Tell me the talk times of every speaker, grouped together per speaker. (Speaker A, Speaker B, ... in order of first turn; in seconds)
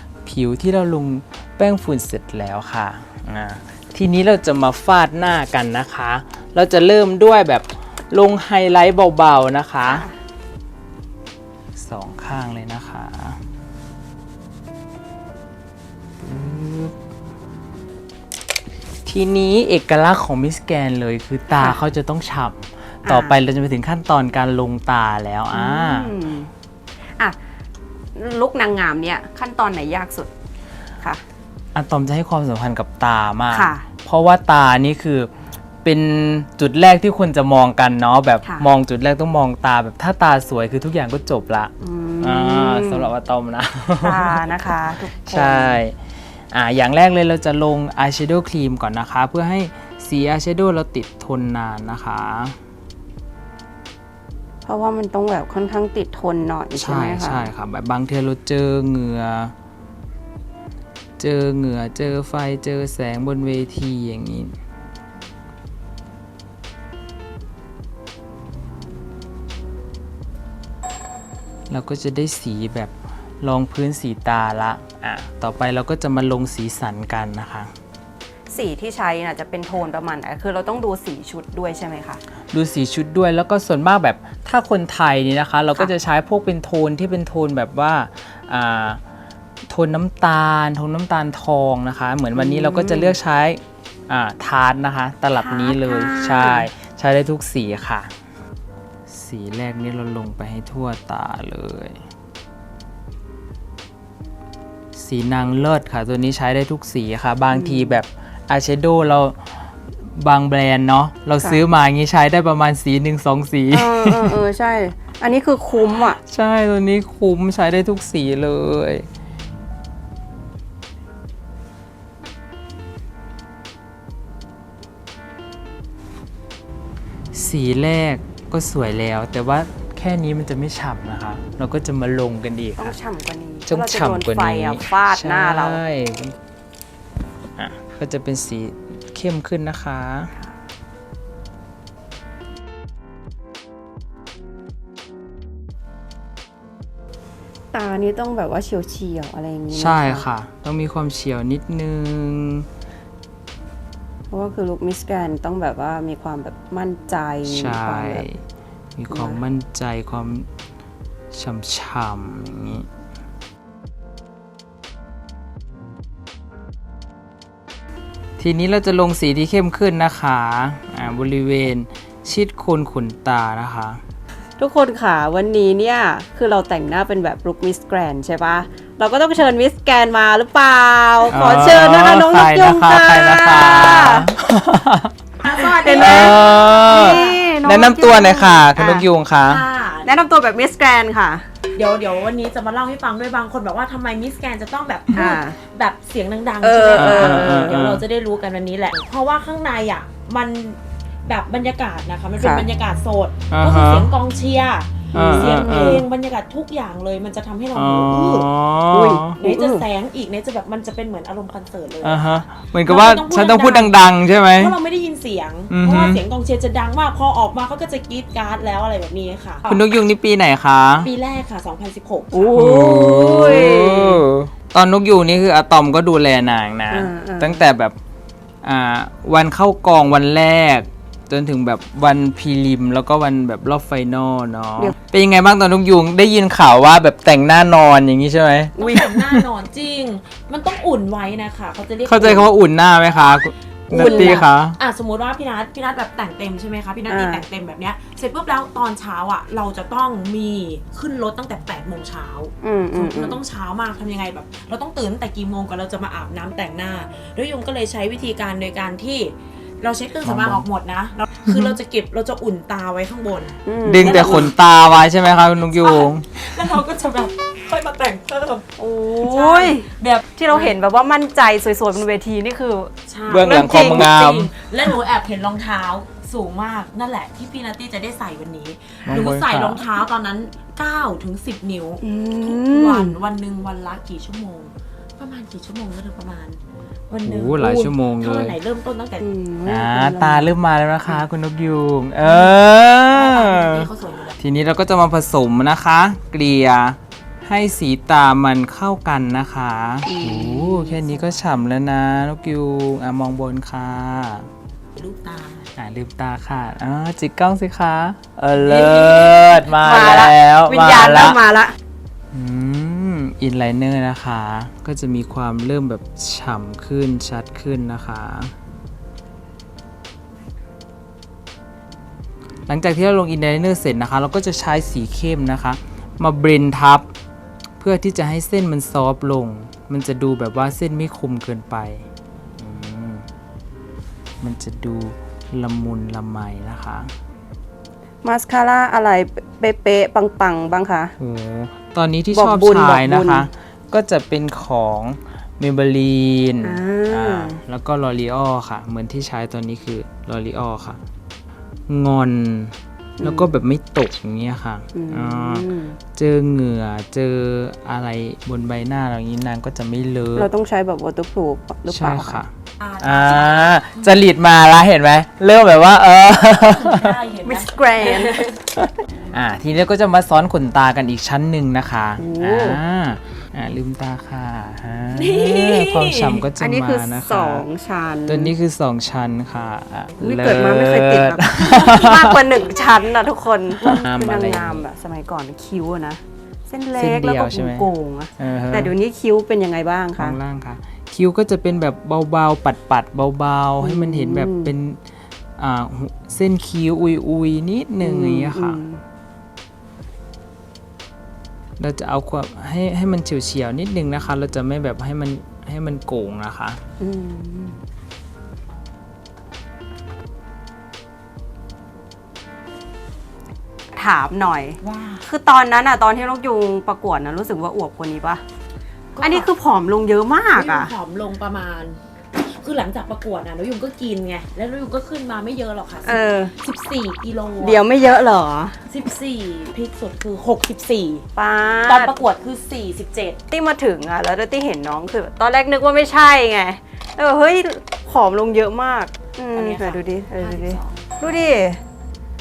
Speaker A: 0.2-10.1, 11.8-13.4, 16.2-16.9, 19.1-26.1, 31.8-35.3, 35.8-46.0, 46.5-52.6, 56.8-59.5, 61.2-64.5, 71.7-77.7, 82.5-89.0, 89.7-98.1, 99.1-102.0, 104.9-109.4, 110.0-114.4, 116.3-119.1, 127.3-132.9, 133.7-136.4, 137.6-140.3, 149.7-152.7, 157.5-158.4, 159.0-160.5, 161.3-162.9, 168.4-174.0, 181.3-185.1, 185.9-189.7, 197.0-198.0, 203.5-204.1, 205.1-206.1, 207.8-209.4, 212.0-214.8, 215.7-216.2, 219.7-221.1, 222.6-227.9, 228.6-239.4, 242.1-244.8, 260.2-260.6, 261.5-261.7, 263.8-266.2, 273.3-274.5, 279.1-279.8, 287.2-288.6, 289.7-293.9, 294.4-304.5, 305.8-311.4, 312.3-318.5, 322.7-327.1, 327.8-332.1, 332.6-333.3, 334.4-337.1, 341.2-351.0, 351.9-360.5, 361.9-367.2, 368.8-377.6, 378.3-382.4, 383.8-384.8, 386.9-387.9, 388.4-388.9, 390.2-395.0, 395.6-398.8, 401.8-406.8
Speaker B: 9.8-10.2, 23.1-23.4, 25.5-26.5, 28.2-30.3, 33.5-33.9, 41.8-43.1, 44.0-45.8, 54.6-57.5, 78.5-82.2, 92.3-93.2, 95.4-96.7, 107.5-108.0, 113.7-116.2, 132.8-135.8, 147.7-150.2, 154.3-158.3, 159.1-159.4, 174.6-184.3, 185.4-189.0, 190.1-191.5, 195.2-195.6, 196.6-197.8, 202.4-202.7, 205.1-206.0, 208.9-209.8, 222.3-224.2, 226.9-227.7, 243.9-244.4, 247.1-247.4, 252.6-253.4, 263.7-264.5, 268.8-274.1, 282.0-283.1, 289.2-290.5, 300.1-301.0, 309.8-311.8, 338.2-341.1, 342.3-343.5, 346.6-347.6, 353.2-353.5, 354.9-356.0, 360.4-362.4, 367.4-368.4, 372.2-372.8, 376.6-378.5, 380.2-390.4, 393.8-394.7, 398.0-399.0, 407.0-407.8, 413.9-418.4, 419.2-420.9, 426.1-426.5, 427.6-428.8, 431.4-432.1, 433.5-441.8
Speaker C: 185.4-187.4, 189.5-190.1, 191.8-208.5, 209.4-214.0, 214.6-219.8, 221.0-222.5, 238.8-242.5, 243.9-264.5, 265.7-268.7, 269.2-270.8, 273.1-286.6, 287.1-289.2, 292.2-292.6, 293.1-294.4, 305.0-305.7, 308.6-309.7, 362.8-364.2, 366.6-368.6, 375.1-376.4, 414.8-415.2, 419.1-419.5, 420.6-427.8, 428.9-431.3, 431.9-433.4, 439.5-441.1